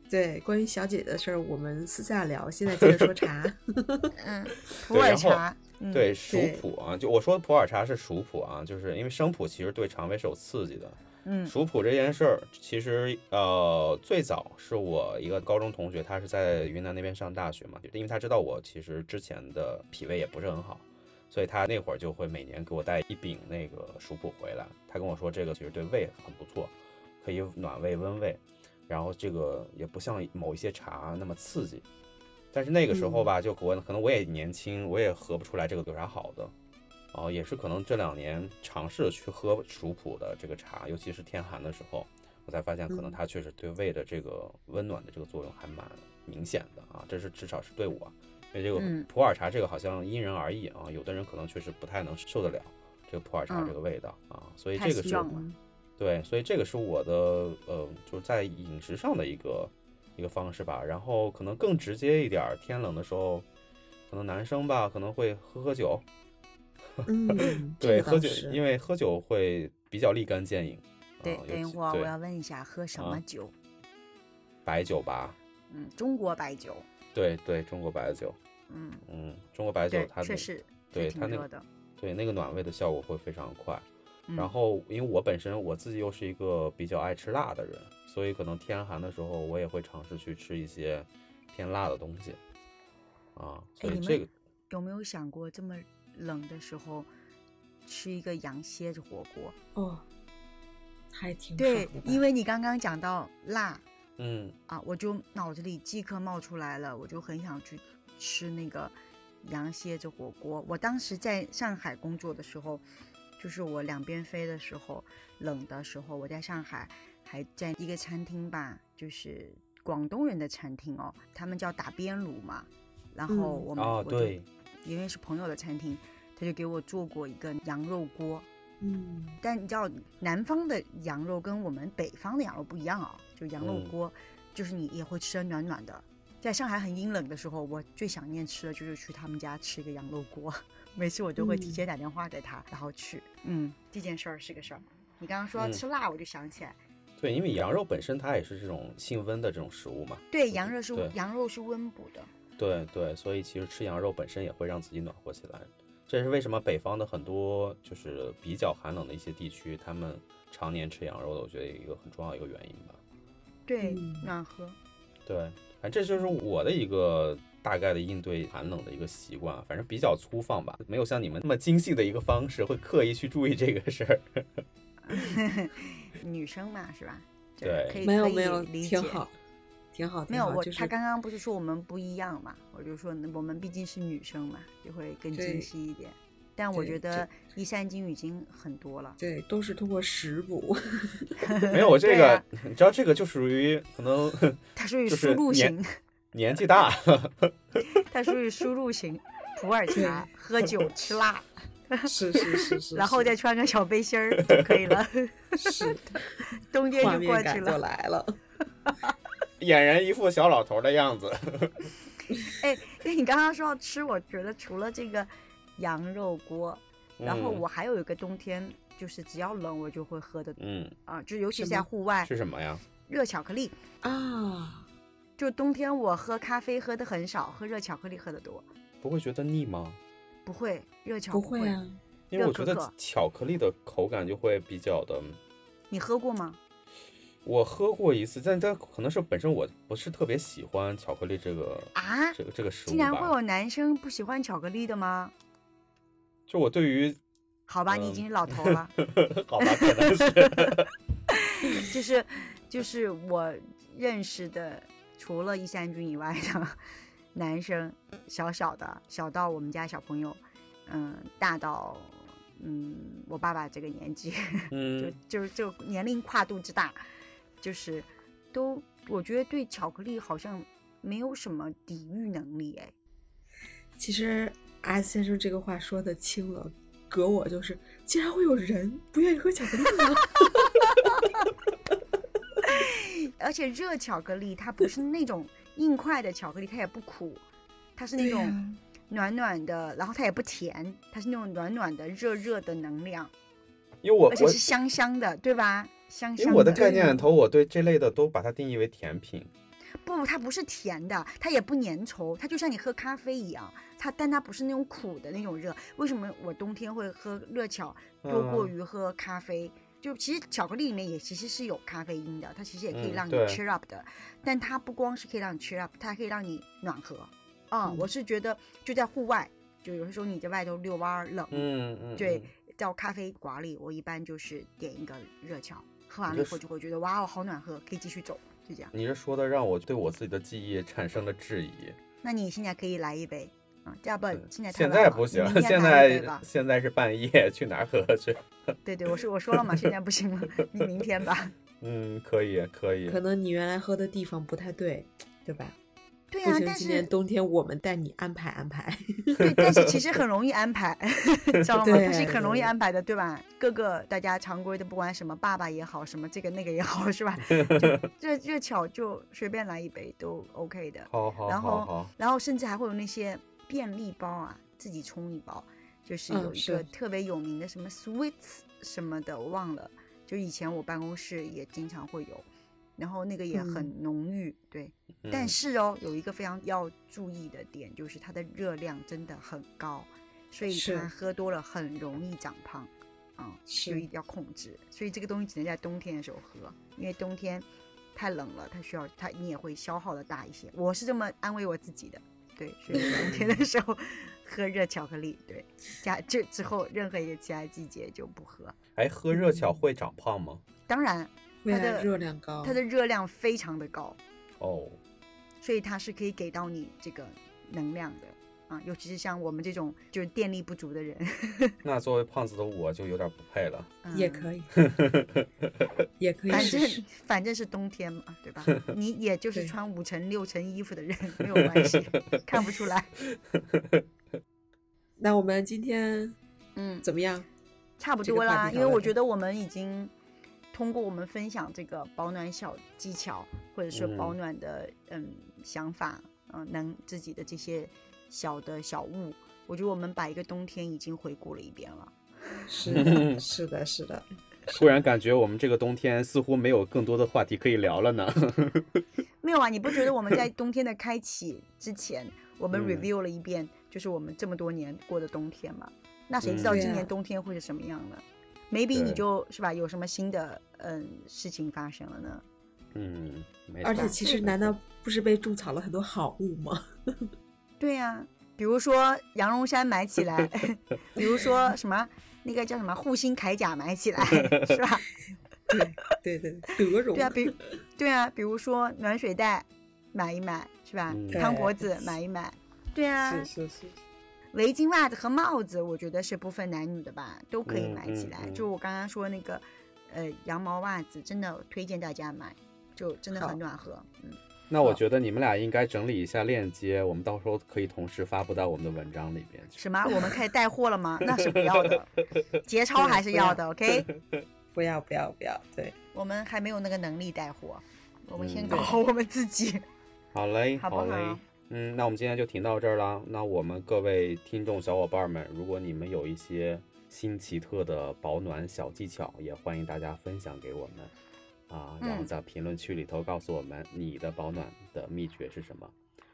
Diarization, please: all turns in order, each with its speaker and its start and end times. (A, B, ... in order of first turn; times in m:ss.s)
0:00.1-0:04.1 A
0:02.8-0:03.1 B
0:04.1-0:06.1 C
0:04.8-0:31.8 B
0:06.3-0:06.6 A
0:11.2-0:11.5 C
0:32.5-0:36.5 B
0:32.9-0:33.3 A
0:37.1-0:55.3 B
0:42.9-0:43.2 A
0:48.8-0:49.1 C
0:53.5-0:53.7 C
0:54.8-0:55.4 C
0:55.0-0:55.5 A
0:56.0-1:03.4 B
1:04.1-1:06.0 B
1:07.0-1:12.1 B
1:07.1-1:08.6 A
1:11.2-1:13.5 C
1:12.9-1:13.2 B
1:14.6-1:15.4 B
1:15.7-1:16.9 C
1:17.1-1:18.4 B
1:18.7-1:19.0 C
1:19.0-1:23.8 B
1:19.9-1:21.6 C
1:24.3-1:24.5 C
1:24.4-1:32.4 B
1:33.3-1:34.3 B
1:33.8-1:37.1 C
1:37.8-1:39.5 C
1:39.7-1:40.0 A
1:41.1-1:42.2 A
1:41.6-1:43.8 C
1:44.2-1:44.6 B
1:44.7-1:52.8 C
1:53.4-2:08.4 C
2:03.3-2:03.6 A
2:03.8-2:04.4 B
2:08.8-2:09.4 A
2:09.4-2:26.8 C
2:13.6-2:13.9 B
2:21.4-2:21.8 A
2:25.6-2:25.8 B
2:27.2-2:31.1 B
2:30.3-2:32.3 C
2:32.6-2:43.0 B
2:43.7-2:44.8 C
2:43.8-2:44.3 A
2:45.2-2:54.6 B
2:55.0-2:59.2 C
2:57.6-2:58.0 B
2:58.0-2:59.3 A
2:59.9-3:00.9 A
3:00.3-3:09.2 C
3:05.3-3:05.7 A
3:06.7-3:07.2 A
3:09.2-3:11.6 A
3:11.4-3:12.4 C
3:11.7-3:15.7 B
3:14.8-3:15.9 C
3:16.3-3:17.5 B
3:17.9-3:27.8 C
3:19.9-3:20.2 A
3:22.1-3:23.3 A
3:24.5-3:24.9 B
3:25.6-3:26.5 A
3:27.0-3:28.4 A
3:29.6-3:31.9 B
3:32.5-3:42.3 C
3:37.2-3:37.6 B
3:40.6-3:40.9 B
3:41.6-3:41.9 A
3:42.2-3:42.8 B
3:43.0-3:43.8 C
3:44.0-3:44.9 A
3:45.4-3:48.6 C
3:49.0-3:50.0 B
3:50.4-3:51.8 C
3:51.3-3:52.0 A
3:52.3-3:55.4 B
3:52.4-3:52.9 C
3:55.9-3:56.6 C
3:57.4-4:03.3 B
4:01.9-4:05.3 C
4:06.5-4:07.2 B
4:07.7-4:09.0 C
4:07.9-4:10.9 B
4:09.6-4:16.8 C
4:17.3-4:27.0 C
4:24.7-4:25.2 B
4:27.6-4:32.9 C
4:34.0-4:41.2 A
4:42.6-4:47.4 C
4:48.0-4:48.6 C
4:48.2-4:48.8 A
4:49.1-4:53.3 C
4:54.0-4:54.7 B
4:54.3-4:56.9 C
4:56.4-4:59.5 B
4:56.5-4:57.2 A
5:00.0-5:28.9 C
5:08.2-5:08.7 B
5:12.9-5:13.6 B
5:21.5-5:22.5 B
5:26.3-5:26.6 B
5:28.9-5:32.0 B
5:32.2-5:36.4 C
5:34.4-5:38.4 B
5:38.8-5:41.5 C
5:39.6-5:39.9 B
5:41.8-5:43.2 B
5:43.1-5:45.8 A
5:46.3-5:47.1 C
5:46.4-5:49.5 A
5:49.4-6:38.7 C
5:51.8-5:52.7 A
5:57.5-5:58.0 B
6:01.1-6:02.1 B
6:06.3-6:06.9 A
6:13.5-6:13.9 A
6:15.2-6:15.6 B
6:20.7-6:21.1 A
6:23.7-6:24.0 A
6:32.9-6:33.5 A
6:39.0-6:40.6 B
6:39.3-6:39.8 A
6:40.9-6:42.1 C
6:41.6-6:42.8 A
6:42.6-6:44.2 C
6:44.6-6:45.0 B
6:45.6-6:51.8 C
6:51.8-6:53.9 B
6:54.0-6:54.5 C
6:54.1-6:54.8 A
6:54.7-6:55.9 B
6:56.2-6:57.0 A
6:56.5-7:03.1 C
7:01.4-7:02.4 B
7:03.3-7:04.0 B
7:05.2-7:06.4 A
7:06.8-7:07.0 C
7:07.0-7:07.5 A
7:08.0-7:10.1 C
7:08.2-7:09.1 A
7:10.7-7:22.6 C
7:13.9-7:14.4 B
7:22.7-7:24.9 A
7:22.8-7:23.4 B
7:24.7-7:29.0 B
7:29.4-7:42.4 C
7:32.7-7:33.1 B
7:36.4-7:36.9 B
7:36.7-7:37.1 A
7:38.9-7:39.2 B
7:42.9-7:44.8 B
7:43.8-7:47.3 A
7:43.9-7:44.4 C
7:47.8-7:55.0 C
7:54.3-7:54.8 B
7:55.7-7:57.5 A
7:57.1-8:03.5 C
8:01.1-8:01.4 B
8:01.3-8:01.8 A
8:03.2-8:04.0 A
8:04.5-8:14.4 C
8:07.6-8:08.6 B
8:14.7-8:19.8 B
8:19.8-8:22.1 C
8:21.3-8:21.7 B
8:22.6-8:24.1 C
8:22.9-8:23.6 A
8:24.1-8:24.4 B
8:24.7-8:26.0 A
8:26.1-8:29.8 C
8:28.4-8:28.9 B
8:28.7-8:29.0 A
8:30.3-8:41.1 B
8:30.8-8:31.4 C
8:41.7-8:45.9 B
8:42.0-8:42.3 C